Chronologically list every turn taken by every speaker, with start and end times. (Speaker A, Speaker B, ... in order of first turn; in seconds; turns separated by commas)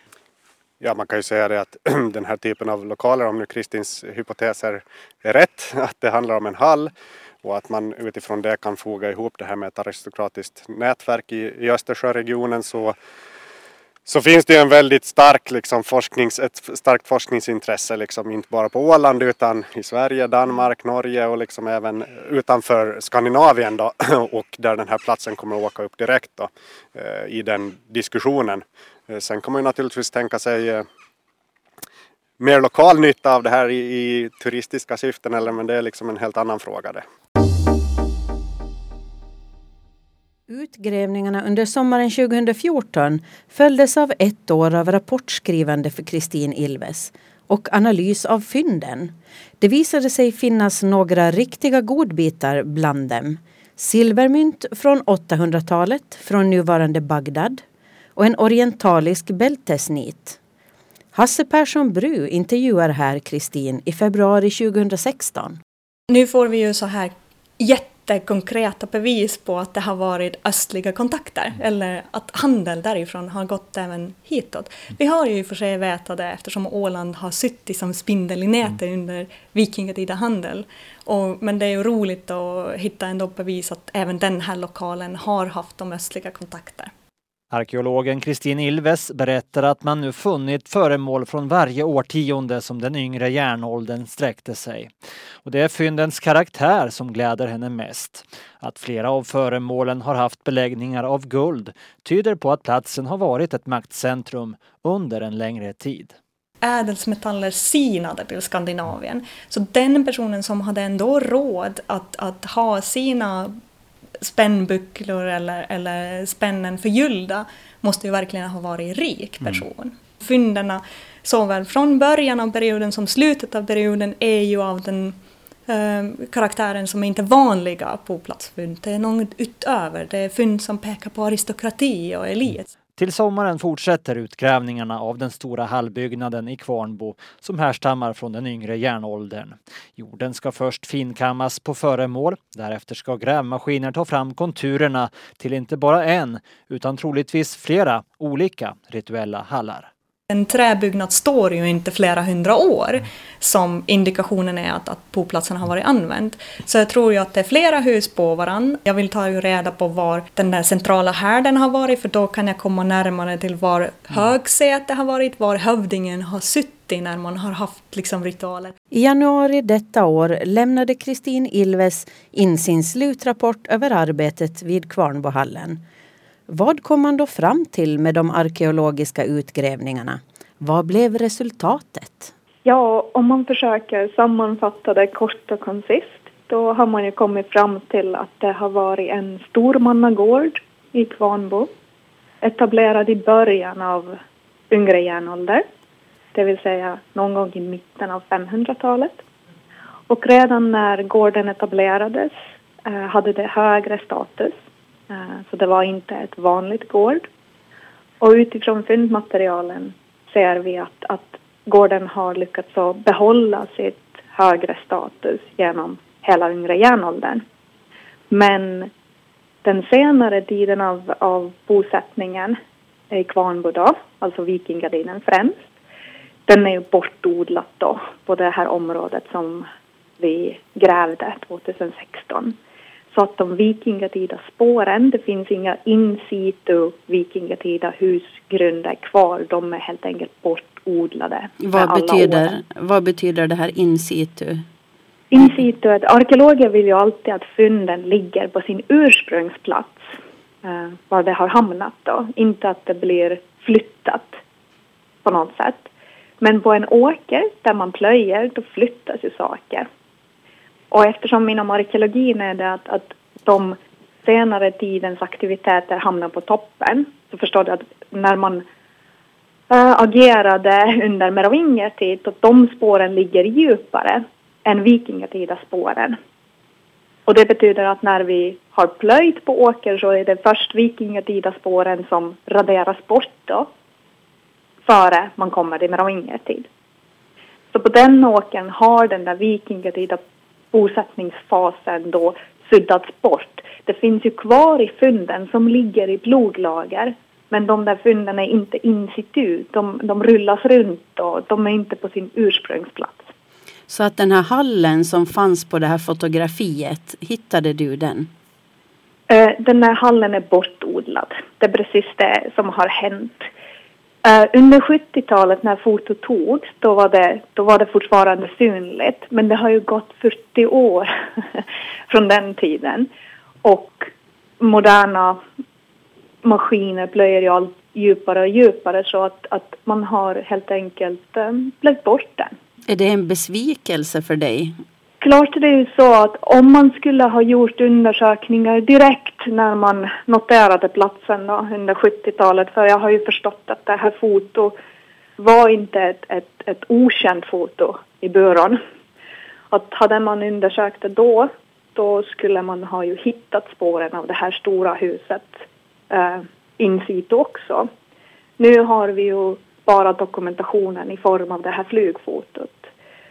Speaker A: 0.8-12.9, Speaker A: 14.1-30.9, Speaker A: 32.4-37.0, Speaker B: 40.5-57.6, Speaker B: 58.2-60.4, Speaker B: 61.1-65.6, Speaker C: 66.1-86.9, Speaker D: 87.5-94.9, Speaker D: 95.4-106.2, Speaker C: 106.6-113.6, Speaker C: 114.2-125.2, Speaker C: 125.7-132.7, Speaker D: 133.0-149.9, Speaker C: 150.3-168.8, Speaker B: 168.9-175.8, Speaker B: 176.5-182.3, Speaker E: 182.7-191.7, Speaker E: 192.4-194.2, Speaker E: 194.7-195.6, Speaker E: 196.3-199.2, Speaker E: 200.1-204.6, Speaker E: 205.1-207.3, Speaker E: 208.2-217.4, Speaker E: 218.3-218.9, Speaker E: 219.6-222.6, Speaker E: 223.1-225.6, Speaker E: 226.5-229.7, Speaker E: 230.2-232.6, Speaker E: 233.1-242.5, Speaker B: 241.6-244.6, Speaker E: 245.3-250.1, Speaker E: 250.6-254.4, Speaker E: 255.2-255.9, Speaker E: 256.4-259.9, Speaker E: 260.9-268.6, Speaker E: 269.7-276.2, Speaker E: 277.3-283.7, Speaker E: 284.9-286.7, Speaker E: 287.7-290.2, Speaker E: 290.7-303.3, Speaker B: 303.9-308.3, Speaker E: 309.3-313.5, Speaker E: 314.2-323.1, Speaker E: 323.6-325.4, Speaker E: 326.4-332.5, Speaker B: 332.9-334.8, Speaker E: 335.2-344.8, Speaker E: 345.4-348.8, Speaker E: 349.7-357.9, Speaker E: 358.6-362.9